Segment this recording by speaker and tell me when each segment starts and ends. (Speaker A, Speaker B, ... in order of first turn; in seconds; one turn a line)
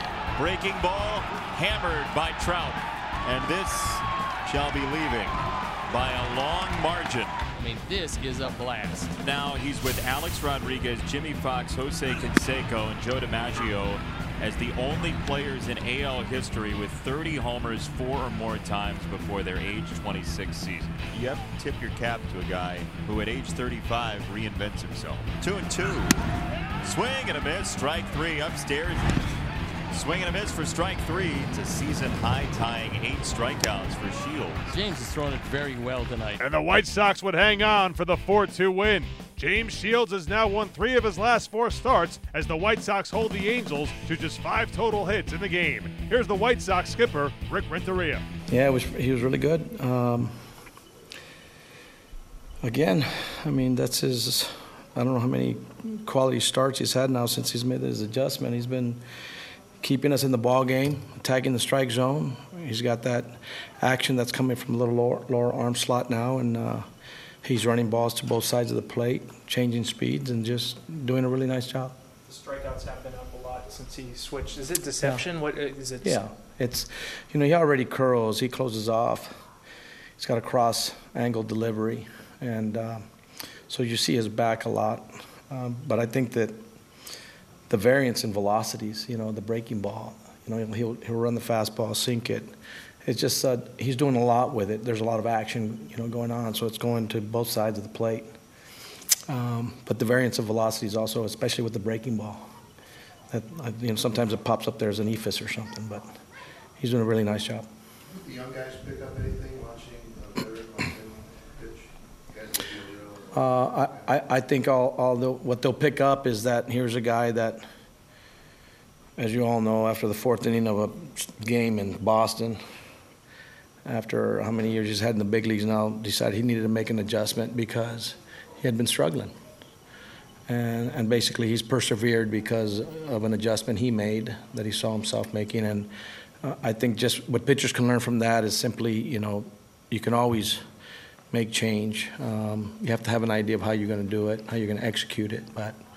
Speaker A: 0.3-5.4
Speaker A: 5.9-7.4
Speaker B: 7.5-9.1
Speaker A: 9.2-26.2
Speaker A: 26.8-29.2
Speaker A: 29.9-34.8
Speaker B: 34.7-36.4
Speaker C: 36.4-48.2
Speaker D: 48.5-50.3
Speaker D: 52.6-59.0
Speaker D: 59.8-66.8
Speaker D: 67.4-71.9
Speaker E: 72.2-76.2
Speaker D: 75.0-75.2
Speaker D: 76.0-79.3
Speaker D: 80.2-83.0
Speaker D: 83.7-86.6
Speaker D: 87.7-92.5
Speaker D: 93.0-98.3
Speaker D: 99.3-102.4
Speaker D: 103.3-106.2
Speaker D: 106.8-107.7
Speaker F: 108.1-113.4
Speaker D: 113.3-117.6
Speaker D: 119.2-122.6
Speaker D: 123.8-129.3
Speaker D: 130.5-135.9
Speaker D: 136.4-140.6
Speaker D: 141.3-145.8